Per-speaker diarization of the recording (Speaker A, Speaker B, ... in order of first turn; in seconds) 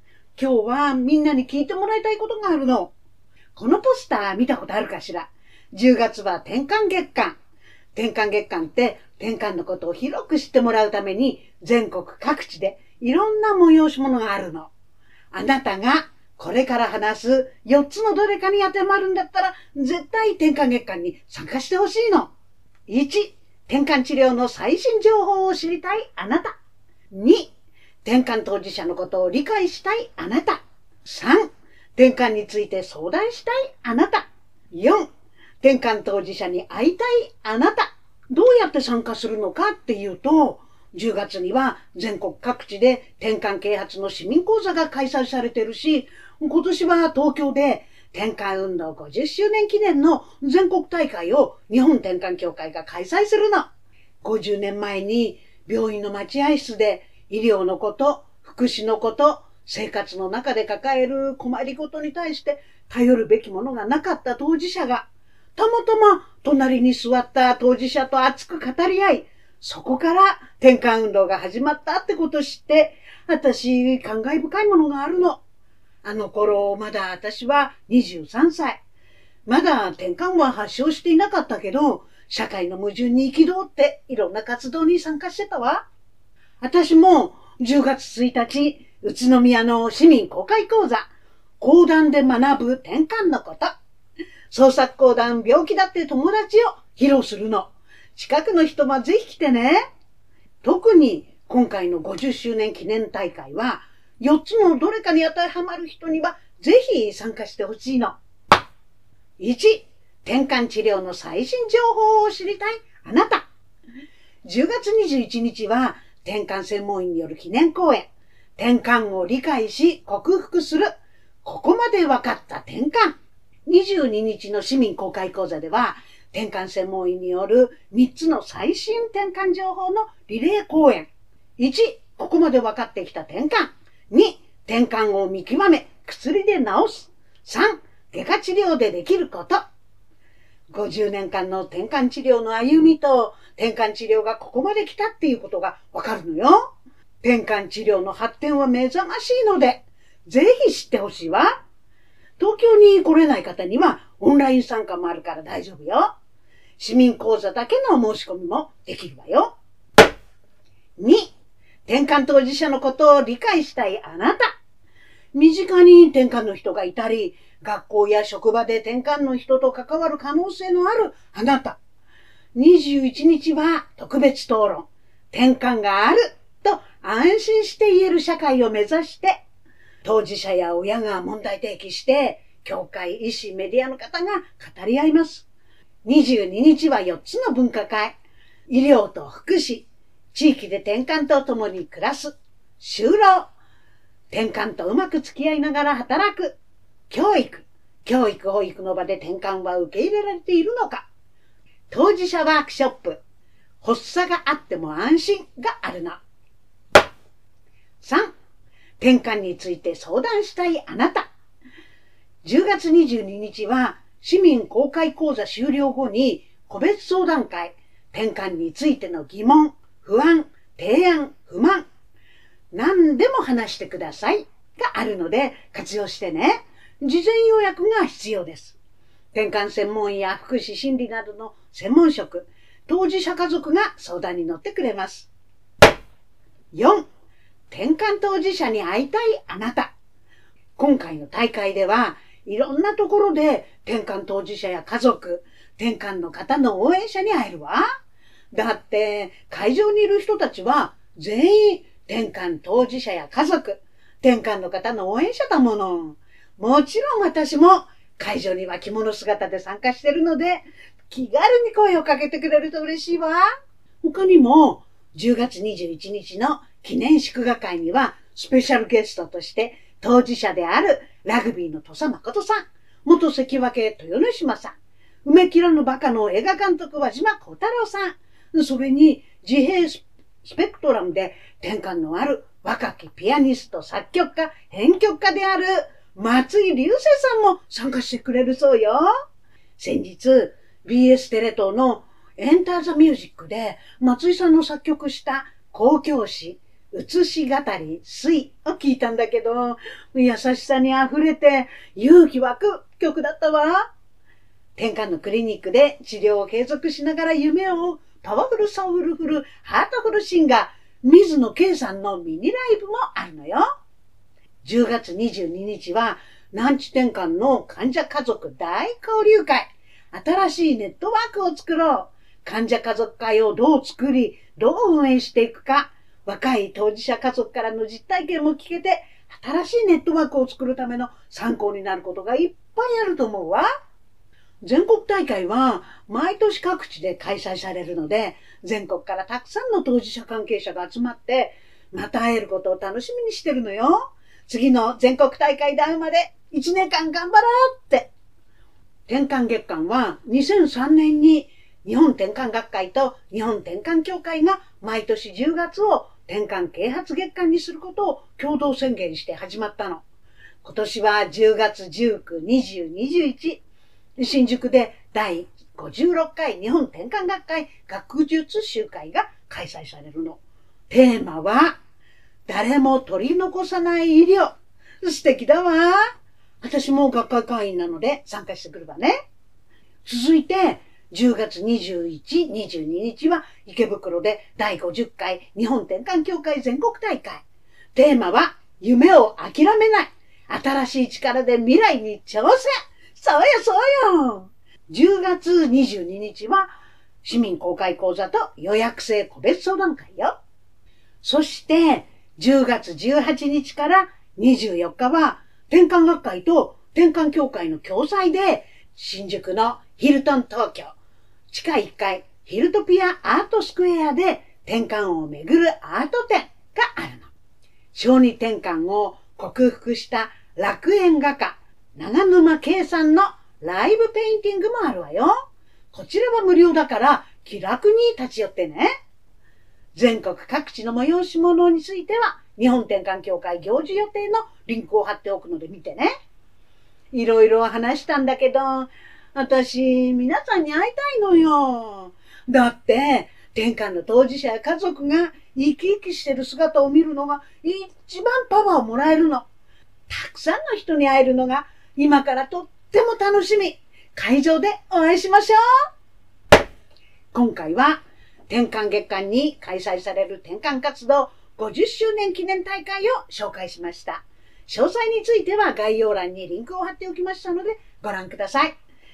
Speaker A: 0.3-2.9, 3.5-7.4, 7.9-14.7, 15.3-22.3, 22.9-26.6, 27.1-27.5, 28.0-35.0, 35.6-53.7, 54.2-75.4, 76.0-78.8, 79.5-85.8, 86.6-91.1, 91.6-93.7, 94.5-99.8, 100.6-108.2, 109.4-113.5, 114.4-120.9, 121.4-139.6, 140.7-151.5, 152.4-156.1, 156.8-159.5, 161.0-161.3, 161.8-164.6, 165.3-171.8, 172.5-179.4, 180.0-185.5, 186.0-188.2, 188.7-193.5, 194.3-196.6, 197.1-201.1, 201.9-203.2, 203.8-206.2, 208.0-208.3, 209.0-211.3, 212.4-221.8, 222.7-228.8, 229.3-235.3, 236.7-237.0, 237.7-239.9, 240.8-247.8, 248.5-263.4, 264.0-289.1, 289.8-303.9, 304.8-313.6, 314.6-333.7, 334.6-348.1, 349.1-360.0, 360.6-363.6, 364.2-371.8, 372.5-379.1, 380.0-387.4, 387.9-396.7, 397.2-400.4, 401.2-410.9, 411.5-417.3, 417.9-425.3, 425.9-428.9, 429.9-436.1, 437.1-449.4, 450.1-455.6, 457.3-468.7